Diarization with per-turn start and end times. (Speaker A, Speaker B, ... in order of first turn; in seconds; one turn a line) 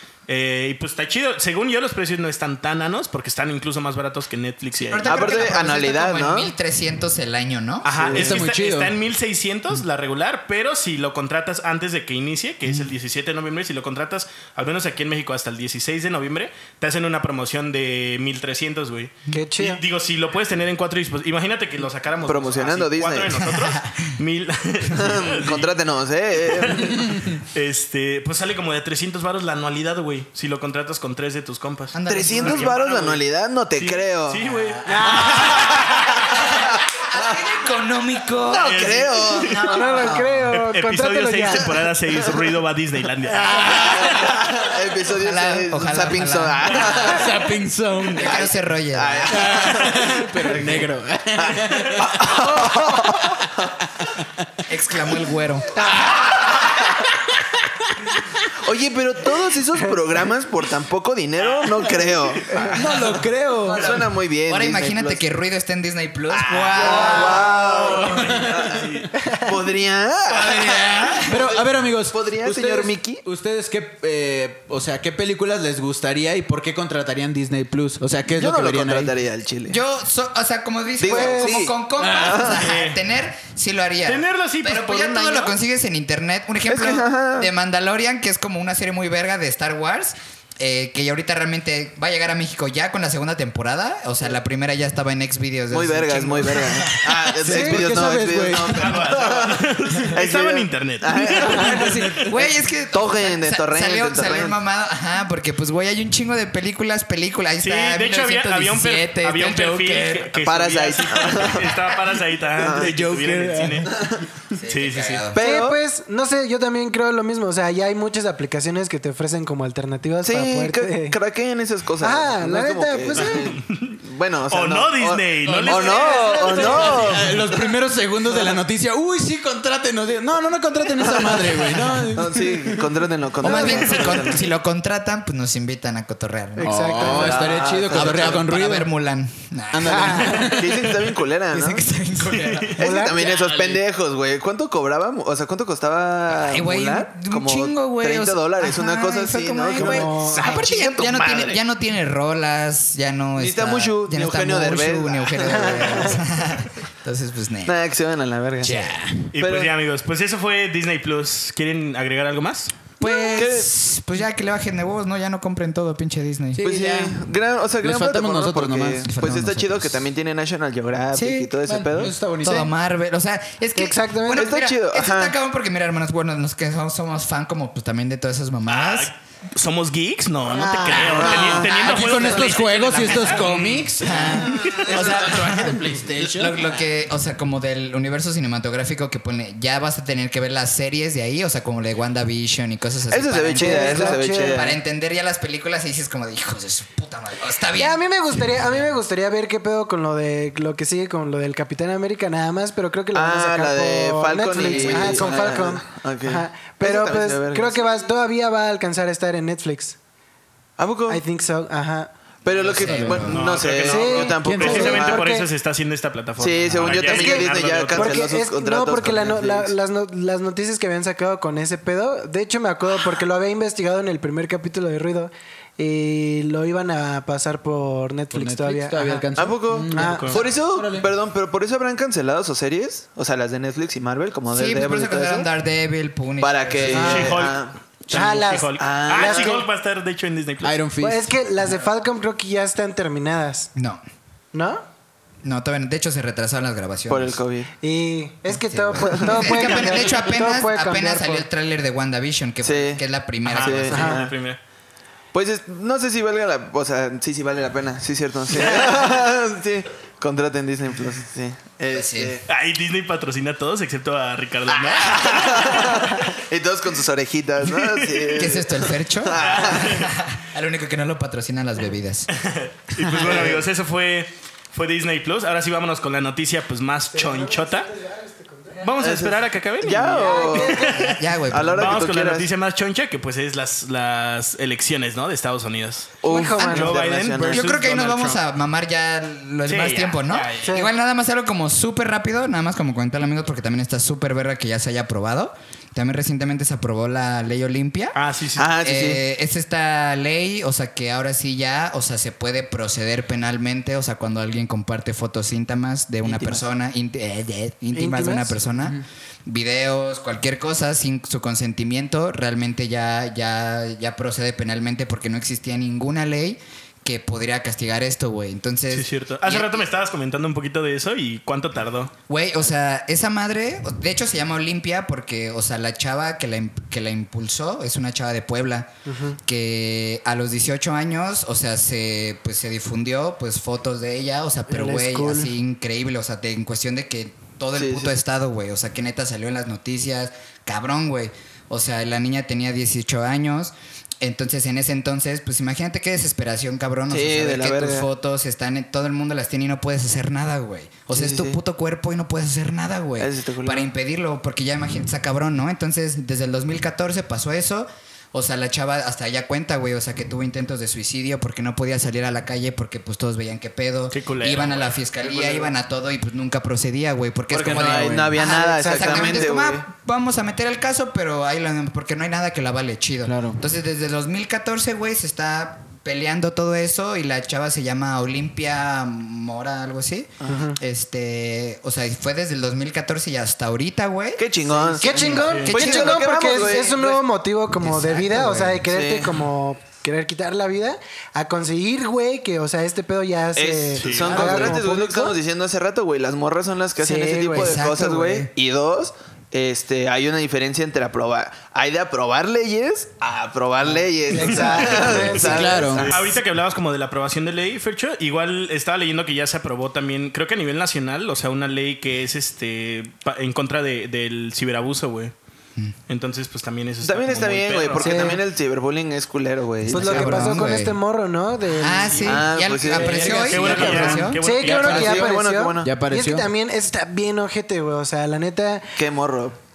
Speaker A: 0.3-5.3
Speaker B: 4.9-7.9
Speaker C: 5.0-6.5
Speaker A: 7.8-25.8
Speaker C: 7.9-8.4
Speaker D: 8.1-8.9
Speaker E: 19.3-19.8
Speaker C: 22.2-23.4
Speaker C: 24.9-27.1
Speaker A: 26.4-33.2
Speaker B: 31.9-32.8
Speaker C: 32.1-34.4
Speaker A: 33.8-36.4
Speaker B: 34.5-40.5
Speaker E: 34.9-35.8
Speaker C: 35.3-37.4
Speaker C: 38.5-40.2
Speaker A: 38.5-39.6
Speaker E: 39.6-41.7
Speaker A: 40.5-44.3
Speaker C: 43.4-47.3
Speaker B: 45.2-47.2
Speaker A: 46.7-47.0
Speaker D: 46.9-48.4
Speaker B: 48.1-49.6
Speaker C: 48.2-53.7
Speaker D: 49.3-54.5
Speaker B: 54.7-55.7
Speaker D: 55.8-58.5
Speaker C: 55.8-56.7
Speaker C: 58.6-62.8
Speaker A: 61.4-62.8
Speaker E: 62.5-62.8
Speaker D: 62.7-64.0
Speaker C: 63.7-65.2
Speaker B: 63.8-67.6
Speaker C: 66.3-73.2
Speaker E: 66.8-67.4
Speaker D: 66.9-68.8
Speaker A: 67.4-69.1
Speaker E: 69.2-69.5
Speaker B: 70.3-71.4
Speaker D: 71.3-79.1
Speaker C: 78.3-79.8
Speaker B: 79.7-97.2
Speaker C: 81.0-82.6
Speaker E: 81.0-81.7
Speaker A: 82.5-83.0
Speaker A: 84.0-85.5
Speaker C: 86.7-87.5
Speaker C: 95.7-104.6
Speaker D: 97.4-99.0
Speaker E: 97.5-97.8
Speaker A: 98.7-102.2
Speaker B: 101.4-110.4
Speaker A: 107.6-114.0
Speaker C: 110.4-111.8
Speaker C: 112.6-112.9
Speaker D: 112.7-114.3
Speaker C: 113.9-114.2
Speaker B: 114.5-115.4
Speaker A: 114.7-115.2
Speaker C: 115.3-115.8
Speaker E: 115.4-121.2
Speaker C: 120.2-127.4
Speaker E: 122.0-123.5
Speaker A: 123.2-127.3
Speaker D: 125.4-132.9
Speaker E: 125.9-127.1
Speaker C: 131.0-134.5
Speaker B: 133.4-140.6
Speaker E: 133.4-133.9
Speaker E: 136.6-137.4
Speaker D: 136.6-138.9
Speaker C: 136.9-138.4
Speaker D: 139.7-140.9
Speaker E: 139.9-140.3
Speaker C: 140.3-141.9
Speaker B: 141.5-142.8
Speaker A: 142.2-143.8
Speaker C: 142.8-151.6
Speaker E: 142.8-143.3
Speaker B: 146.4-157.8
Speaker E: 149.8-150.6
Speaker C: 153.4-156.2
Speaker E: 155.4-156.2
Speaker C: 157.7-158.8
Speaker B: 158.6-159.1
Speaker A: 159.3-162.7
Speaker C: 159.4-159.7
Speaker B: 163.0-166.7
Speaker C: 163.3-163.7
Speaker D: 166.5-167.2
Speaker C: 166.6-172.1
Speaker D: 167.8-169.1
Speaker B: 169.1-170.1
Speaker B: 171.1-171.5
Speaker D: 171.7-172.7
Speaker B: 172.4-179.1
Speaker E: 173.8-174.5
Speaker C: 174.3-175.3
Speaker A: 178.7-183.8
Speaker E: 180.5-181.6
Speaker D: 180.9-186.8
Speaker C: 181.2-181.6
Speaker B: 181.2-198.8
Speaker C: 193.1-194.8
Speaker E: 193.6-194.7
Speaker E: 197.8-210.0
Speaker C: 203.1-207.8
Speaker B: 204.6-205.5
Speaker C: 210.8-211.2
Speaker E: 211.1-212.1
Speaker C: 212.4-215.3
Speaker B: 212.7-213.6
Speaker D: 212.8-213.3
Speaker A: 213.3-218.3
Speaker E: 213.8-215.5
Speaker D: 214.4-215.0
Speaker C: 216.4-219.7
Speaker E: 217.0-229.3
Speaker D: 228.3-231.1
Speaker C: 229.4-235.5
Speaker E: 229.9-230.4
Speaker A: 230.0-230.4
Speaker B: 234.5-237.3
Speaker C: 236.4-239.6
Speaker A: 236.9-240.8
Speaker E: 238.1-239.7
Speaker D: 240.6-241.3
Speaker E: 241.0-243.7
Speaker B: 243.8-244.0
Speaker E: 244.5-244.8
Speaker B: 245.4-247.4
Speaker C: 247.1-247.7
Speaker E: 247.8-251.4
Speaker B: 248.5-254.1
Speaker C: 249.2-249.6
Speaker C: 252.6-253.0
Speaker A: 253.4-254.6
Speaker C: 253.6-254.3
Speaker C: 255.3-262.4
Speaker B: 261.9-262.4
Speaker A: 262.5-266.2
Speaker C: 264.7-270.0
Speaker B: 268.3-272.3
Speaker A: 269.3-270.1
Speaker A: 272.3-277.9
Speaker C: 273.2-273.6
Speaker E: 277.1-278.9
Speaker A: 278.8-281.2
Speaker C: 279.0-280.9
Speaker E: 280.1-281.2
Speaker B: 280.9-282.1
Speaker C: 281.5-282.5
Speaker A: 281.7-288.4
Speaker C: 286.2-287.7
Speaker E: 286.2-287.0
Speaker B: 287.5-298.1
Speaker A: 289.7-290.8
Speaker E: 290.6-290.9
Speaker A: 298.1-298.7
Speaker C: 298.6-299.2
Speaker B: 298.8-319.9
Speaker D: 306.2-306.6
Speaker E: 307.9-308.6
Speaker D: 308.8-309.0
Speaker A: 318.9-322.1
Speaker B: 322.3-328.9
Speaker E: 329.1-329.4
Speaker B: 329.4-386.8
Speaker E: 334.7-335.5
Speaker C: 337.8-338.1
Speaker C: 347.1-348.1
Speaker C: 351.1-351.6
Speaker C: 353.2-353.9
Speaker A: 364.1-364.8
Speaker C: 365.2-365.7
Speaker C: 367.5-369.8
Speaker E: 368.3-369.5
Speaker D: 373.2-373.6
Speaker E: 380.4-380.8
Speaker C: 384.4-387.2
Speaker E: 384.8-395.4
Speaker A: 385.4-385.7
Speaker B: 387.8-388.8
Speaker C: 388.9-389.4
Speaker C: 393.5-406.3
Speaker A: 394.0-394.8
Speaker E: 397.0-397.8
Speaker B: 397.5-398.5
Speaker E: 404.3-406.0
Speaker D: 405.4-406.1
Speaker A: 406.0-415.3
Speaker A: 416.1-418.4
Speaker C: 417.0-420.6
Speaker E: 418.0-418.4
Speaker E: 419.9-422.4
Speaker B: 419.9-421.0
Speaker B: 421.7-424.4
Speaker C: 422.2-423.9
Speaker E: 422.9-428.9
Speaker D: 423.0-424.1
Speaker A: 423.5-425.3
Speaker C: 424.6-425.9
Speaker D: 425.8-426.5
Speaker C: 429.0-429.6